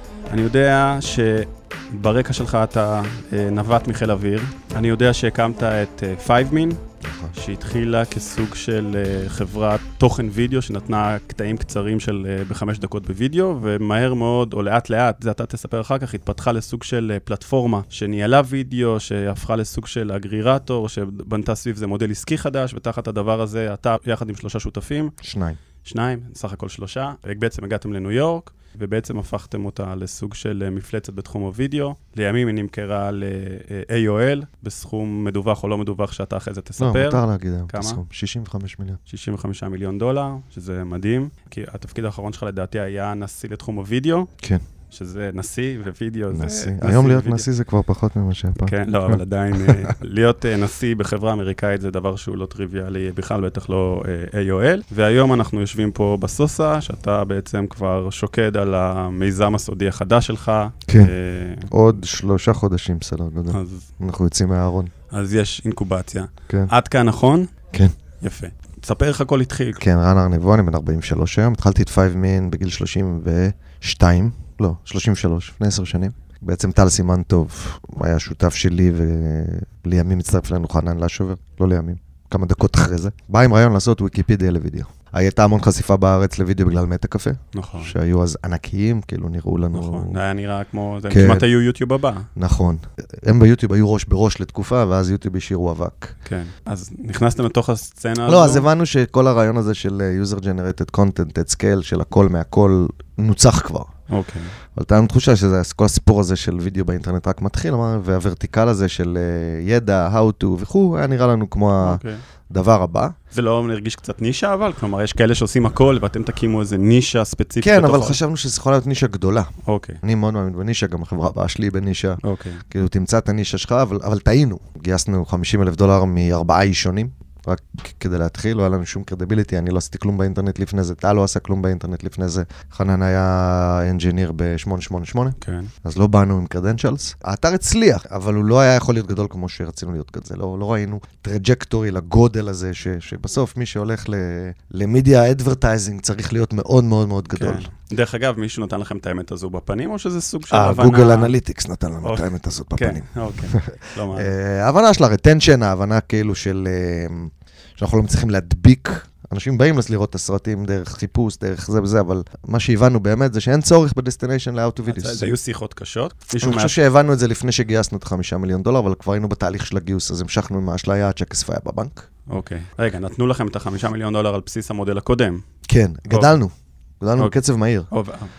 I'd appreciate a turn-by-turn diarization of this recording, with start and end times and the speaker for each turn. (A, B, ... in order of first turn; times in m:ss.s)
0:00.3-0:06.8 A
0:07.0-0:07.3 B
0:07.3-0:25.1 A
0:25.2-0:25.6 B
0:25.8-0:38.0 A
0:36.8-0:39.0 B
0:39.1-0:44.3 A
0:44.9-0:47.4 A
0:46.3-0:49.9 B
0:48.6-1:01.7 A
1:00.9-1:01.1 B
1:01.7-1:04.9 B
1:03.5-1:03.9 A
1:05.1-1:07.5 A
1:08.2-1:09.8 A
1:09.8-1:30.2 B
1:27.5-1:27.9 A
1:29.7-1:32.3 A
1:31.1-1:31.4 B
1:32.4-1:36.1 B
1:36.2-1:38.6 A
1:38.2-1:43.9 B
1:44.1-1:44.5 A
1:44.7-1:53.1 B
1:51.8-1:52.2 A
1:53.3-1:58.2 A
1:57.6-2:02.2 B
1:59.6-2:00.0 A
2:02.2-2:02.6 A
2:02.7-2:27.7 B
2:15.4-2:15.7 A
2:27.3-2:31.3 A
2:30.5-2:45.3 B
2:32.0-2:34.3 A
2:44.8-2:46.8 A
2:46.4-2:52.1 B
2:52.3-2:55.4 A
2:55.7-2:57.9 B
2:57.9-2:58.3 A